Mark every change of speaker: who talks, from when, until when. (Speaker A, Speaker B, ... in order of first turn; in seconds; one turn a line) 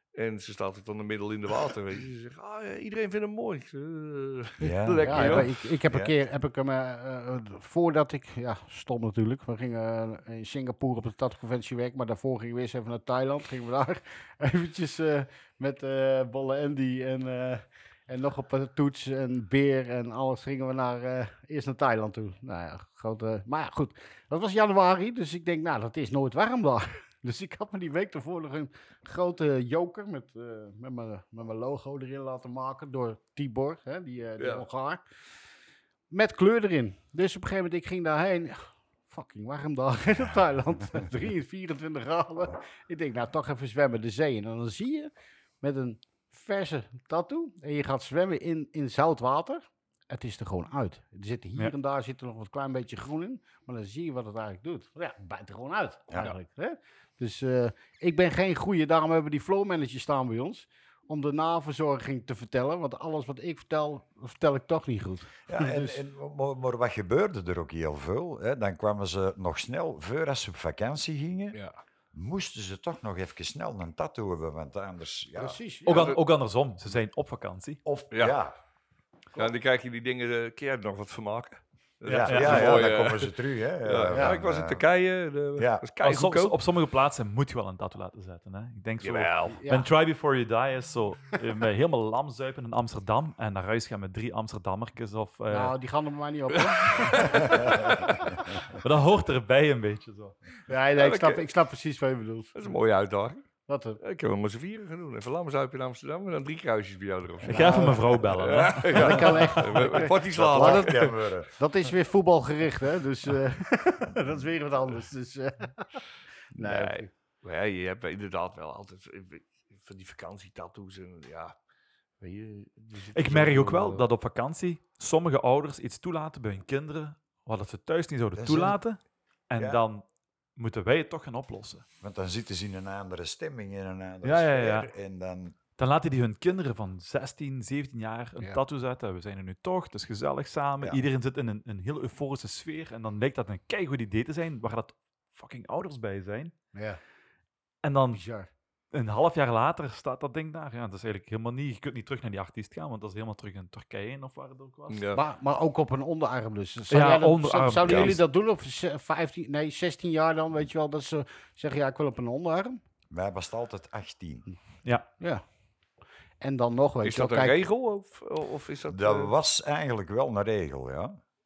Speaker A: 0.1-5.5
Speaker B: 4.6-6.1
Speaker C: 5.0-35.0
Speaker A: 34.4-34.6
Speaker C: 36.1-66.0
Speaker B: 65.5-71.6
Speaker A: 71.5-71.8
Speaker B: 72.1-75.6
Speaker C: 75.3-76.2
Speaker D: 75.8-77.8
Speaker A: 75.9-76.2
Speaker B: 77.8-78.5
Speaker A: 78.1-78.4
Speaker A: 79.3-86.6
Speaker B: 82.0-84.9
Speaker D: 82.2-82.9
Speaker C: 84.1-84.4
Speaker B: 85.5-85.8
Speaker D: 86.0-95.7
Speaker A: 89.0-89.6
Speaker C: 89.5-89.9
Speaker C: 95.5-98.6
Speaker A: 96.5-97.6
Speaker D: 97.2-100.4
Speaker C: 100.7-102.6
Speaker A: 101.0-101.4
Speaker A: 102.5-103.4
Speaker C: 103.7-104.0
Speaker A: 104.0-111.2
Speaker D: 107.4-109.5
Speaker C: 107.5-108.0
Speaker C: 108.9-117.1
Speaker B: 110.0-111.5
Speaker A: 116.5-121.5
Speaker A: 122.2-124.1
Speaker D: 123.1-131.8
Speaker B: 128.3-128.8
Speaker B: 129.6-129.8
Speaker B: 132.0-135.6
Speaker D: 134.2-134.9
Speaker D: 135.8-146.5
Speaker C: 146.7-147.0
Speaker D: 147.8-148.2
Speaker C: 148.1-148.5
Speaker D: 148.9-155.1
Speaker A: 154.9-155.2
Speaker C: 155.1-162.8
Speaker D: 156.9-158.2
Speaker A: 157.8-158.1
Speaker B: 163.1-164.5
Speaker C: 165.2-165.5
Speaker C: 166.4-167.6
Speaker A: 167.0-169.3
Speaker B: 168.9-171.2